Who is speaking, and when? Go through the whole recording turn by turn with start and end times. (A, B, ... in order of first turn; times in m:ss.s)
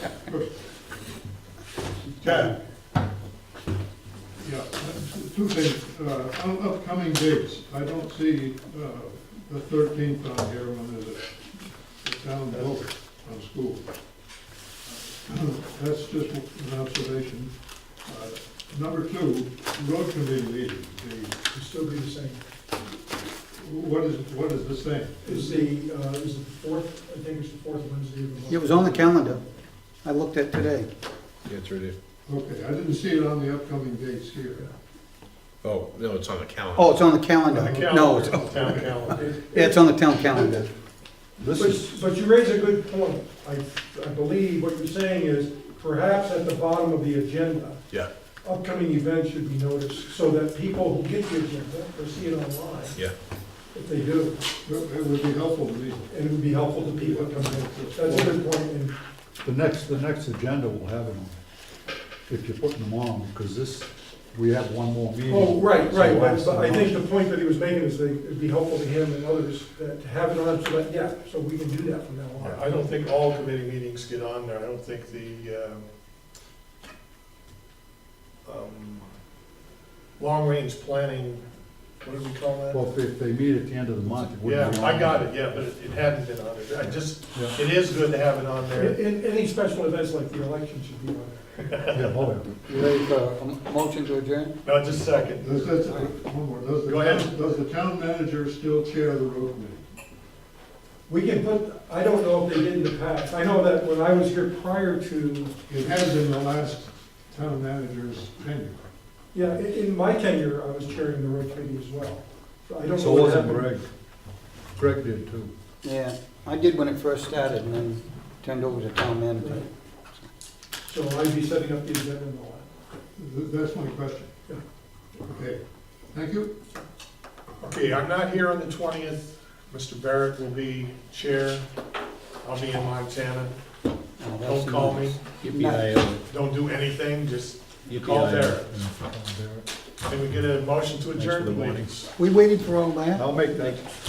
0:02.2-0:02.6 A
0:02.2-0:02.5 B
0:04.4-0:11.3 C
0:12.0-0:13.8 C
0:12.5-0:12.8 A
0:15.2-0:17.5 C
0:18.0-0:21.3 C
0:21.5-0:22.4 D
0:23.6-0:25.7 C
0:25.2-0:29.1 D
0:28.5-0:29.4 B
0:30.0-0:30.9 B
0:31.4-0:32.0 E
0:32.2-0:34.7 C
0:35.6-0:37.0 E
0:36.7-0:40.7 B
0:37.5-0:39.2 A
0:39.1-0:40.6 D
0:41.4-0:41.9 F
0:41.5-0:47.8 D
0:48.4-0:53.0 D
0:53.7-0:54.4 D
0:54.6-0:58.3 C
0:56.1-0:58.9 D
0:59.4-1:01.3 F
1:02.3-1:07.0 F
1:05.3-1:12.6 D
1:12.4-1:15.9 A
1:18.4-1:19.1 A
1:20.2-1:21.4 A
1:22.0-1:22.8 A
1:22.7-1:25.2 F
1:24.4-1:29.0 A
1:28.7-1:31.4 D
1:31.6-1:32.1 A
1:31.9-1:32.6 F
1:32.6-1:34.5 B
1:34.6-1:35.8 A
1:35.4-1:39.8 C
1:36.8-1:37.3 A
1:41.1-1:45.5 D
1:45.7-1:48.8 C
1:49.3-1:53.7 D
1:53.0-1:53.9 F
1:54.8-1:55.5 F
1:55.8-1:59.7 B
1:59.4-1:59.7 D
2:00.8-2:02.6 D
2:03.2-2:04.3 C
2:05.2-2:05.6 C
2:06.1-2:06.5 C
2:07.6-2:11.6 A
2:12.4-2:13.5 A
2:14.2-2:15.9 B
2:14.4-2:15.3 A
2:15.4-2:16.2 E
2:16.2-2:18.7 A
2:17.8-2:18.6 E
2:18.7-2:19.7 F
2:20.0-2:22.1 A
2:21.2-2:21.7 F
2:21.3-2:21.9 E
2:22.2-2:23.3 B
2:23.1-2:23.9 F